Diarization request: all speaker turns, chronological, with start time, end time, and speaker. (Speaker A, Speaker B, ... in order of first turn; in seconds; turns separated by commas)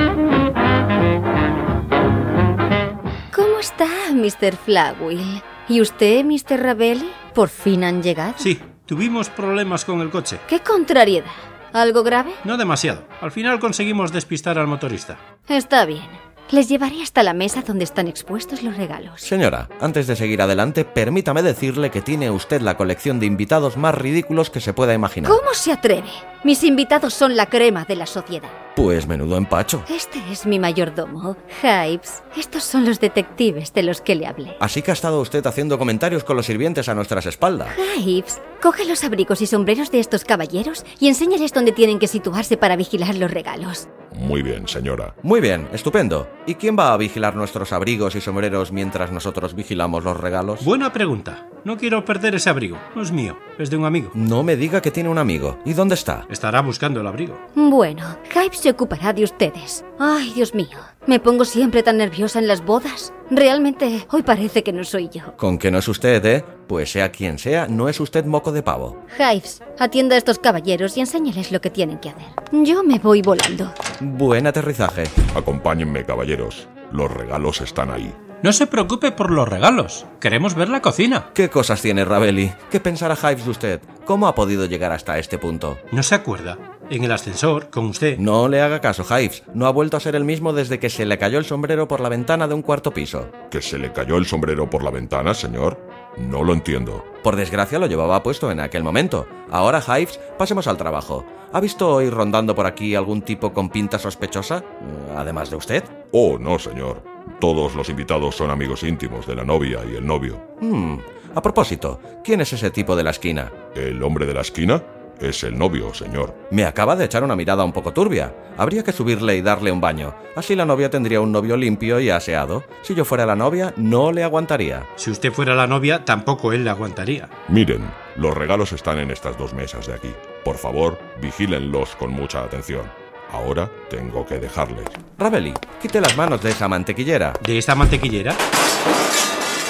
Speaker A: 3.3-8.5, Speaker B: 8.4-10.4, Speaker A: 10.5-12.4, Speaker B: 12.4-15.2, Speaker A: 15.5-19.3, Speaker C: 19.2-25.4, Speaker A: 25.2-28.5, Speaker C: 28.7-29.9, Speaker A: 29.9-34.6, Speaker C: 34.6-37.8, Speaker A: 37.7-43.9, Speaker D: 44.1-45.1, Speaker C: 45.2-50.7, Speaker B: 50.6-54.1, Speaker C: 54.1-56.3, Speaker B: 56.3-57.4, Speaker A: 57.5-65.3, Speaker C: 65.4-69.0, Speaker A: 69.1-73.7, Speaker C: 74.0-75.2, Speaker D: 75.3-78.2, Speaker B: 78.4-81.3, Speaker C: 81.3-85.8, Speaker B: 85.9-88.2, Speaker C: 88.2-93.4, Speaker D: 93.5-97.0, Speaker C: 97.2-106.0, Speaker D: 106.1-110.4, Speaker C: 110.6-113.6, Speaker D: 113.7-116.4, Speaker C: 116.5-124.9, Speaker B: 125.0-127.3, Speaker D: 127.5-135.0, Speaker C: 135.2-137.4, Speaker B: 137.4-138.4